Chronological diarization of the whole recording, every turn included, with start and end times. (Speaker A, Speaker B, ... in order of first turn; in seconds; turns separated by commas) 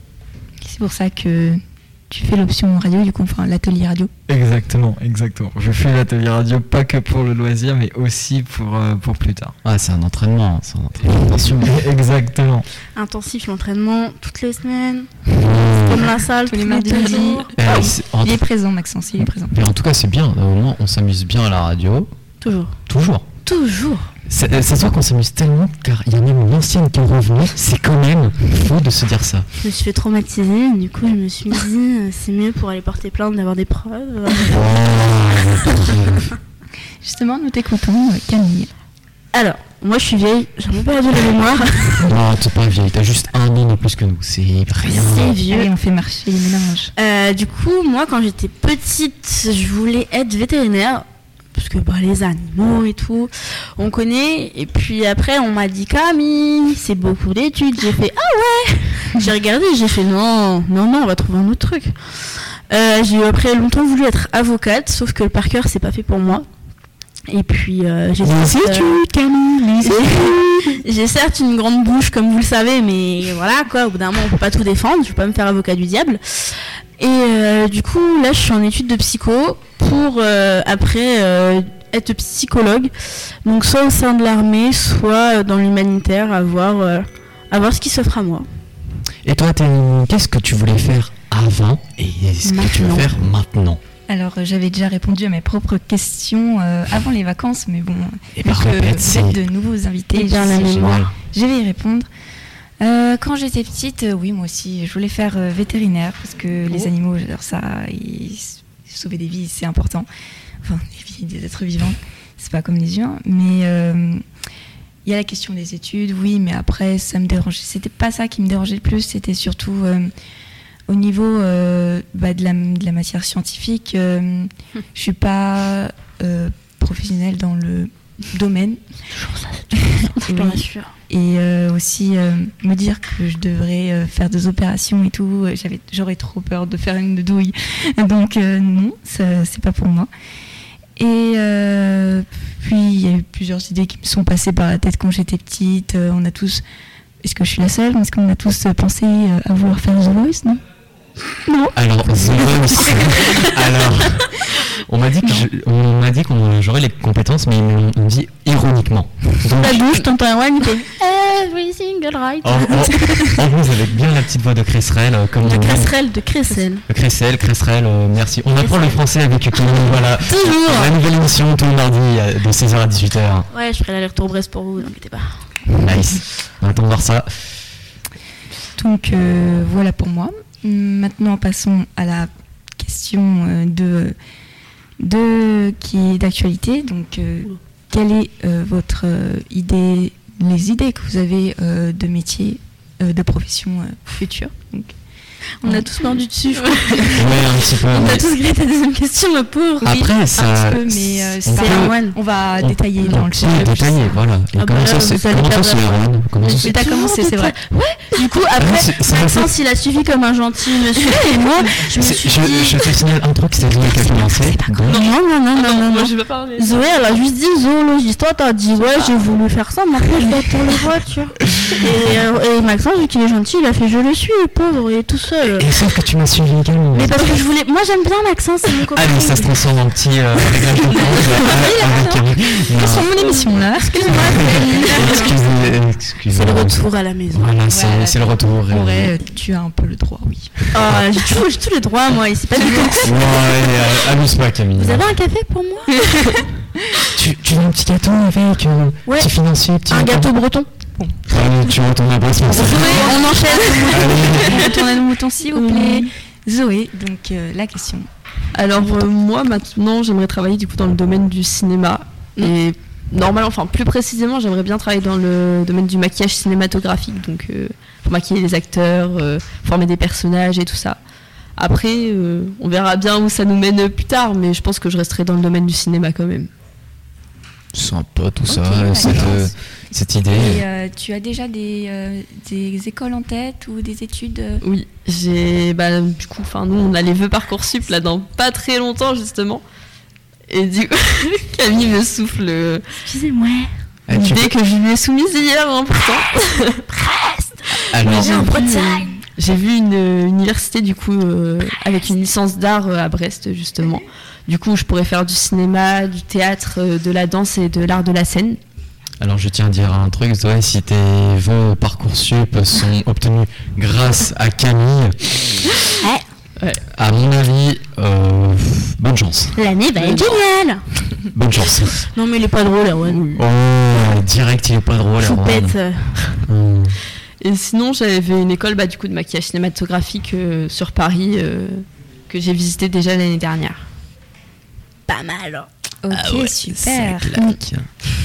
Speaker A: 0.6-4.1, Speaker B: 4.3-9.5, Speaker C: 9.6-11.8, Speaker B: 11.6-12.7, Speaker D: 12.9-17.5, Speaker C: 15.3-16.1, Speaker A: 16.5-19.6, Speaker C: 17.5-18.4, Speaker C: 19.5-22.1, Speaker D: 22.4-22.7, Speaker C: 22.9-23.3, Speaker D: 23.4-24.1, Speaker C: 24.3-29.4, Speaker D: 29.6-34.9, Speaker C: 34.5-36.3, Speaker A: 37.0-38.7, Speaker D: 39.3-42.1, Speaker C: 41.9-45.4, Speaker D: 44.8-45.7, Speaker A: 45.4-46.9, Speaker D: 47.0-61.9, Speaker D: 62.7-66.5, Speaker D: 67.3-69.0, Speaker C: 68.2-70.3, Speaker D: 69.8-82.9, Speaker D: 83.4-88.5, Speaker C: 89.2-93.8, Speaker D: 92.4-93.1, Speaker A: 94.1-102.1, Speaker C: 98.4-99.4, Speaker D: 100.1-101.1, Speaker C: 100.5-101.1, Speaker A: 102.8-110.1, Speaker A: 110.6-114.2, Speaker A: 115.0-120.1, Speaker A: 120.9-128.8, Speaker D: 129.1-130.9, Speaker A: 129.7-140.1, Speaker A: 141.0-146.6, Speaker A: 147.2-150.6, Speaker D: 151.5-151.7, Speaker C: 151.7-160.0, Speaker D: 152.8-153.5, Speaker D: 159.5-163.4, Speaker C: 162.4-165.9, Speaker D: 165.4-166.8, Speaker C: 166.9-173.5, Speaker D: 168.6-169.0, Speaker D: 170.2-170.9, Speaker D: 173.5-175.4, Speaker C: 175.8-177.3, Speaker A: 178.8-184.1, Speaker A: 185.0-194.9, Speaker A: 195.6-196.2, Speaker D: 195.6-200.1, Speaker C: 197.1-198.3, Speaker C: 199.8-201.9, Speaker A: 199.8-204.2, Speaker D: 201.5-202.1, Speaker C: 202.5-206.8, Speaker D: 204.6-212.9, Speaker A: 206.6-207.6, Speaker C: 208.6-209.5, Speaker C: 211.8-215.0, Speaker A: 214.0-214.9, Speaker D: 214.8-225.7, Speaker E: 214.9-217.2, Speaker C: 225.6-227.4, Speaker D: 226.9-229.5, Speaker C: 228.9-233.1, Speaker D: 231.1-231.5, Speaker A: 231.6-235.4, Speaker D: 233.2-235.4, Speaker C: 234.1-236.8, Speaker D: 236.3-237.5, Speaker C: 237.3-239.1, Speaker A: 237.7-240.7, Speaker D: 240.7-243.4, Speaker C: 240.8-241.0, Speaker C: 243.0-245.1, Speaker D: 244.8-246.3, Speaker C: 247.1-250.3, Speaker D: 249.9-250.7, Speaker C: 251.3-254.8, Speaker D: 252.7-254.8, Speaker A: 252.7-258.1, Speaker E: 252.8-253.2, Speaker D: 255.5-256.1, Speaker E: 258.5-271.0, Speaker E: 271.6-276.5, Speaker C: 277.7-280.6, Speaker A: 278.5-279.5, Speaker A: 280.3-284.6, Speaker E: 284.6-289.6, Speaker E: 290.5-292.9, Speaker D: 293.0-293.7, Speaker C: 294.1-294.5, Speaker E: 294.1-296.8, Speaker D: 296.9-299.2, Speaker C: 297.9-298.6, Speaker E: 298.0-308.6, Speaker C: 309.2-315.6, Speaker D: 316.0-316.2, Speaker C: 316.9-319.6, Speaker D: 319.6-320.8, Speaker E: 319.9-320.4, Speaker C: 321.3-321.9, Speaker D: 322.0-323.3, Speaker E: 323.0-323.4, Speaker C: 323.3-325.8, Speaker D: 325.2-326.4, Speaker C: 326.4-327.0, Speaker E: 327.4-333.8, Speaker D: 335.1-335.7, Speaker A: 336.0-337.5, Speaker C: 336.1-337.9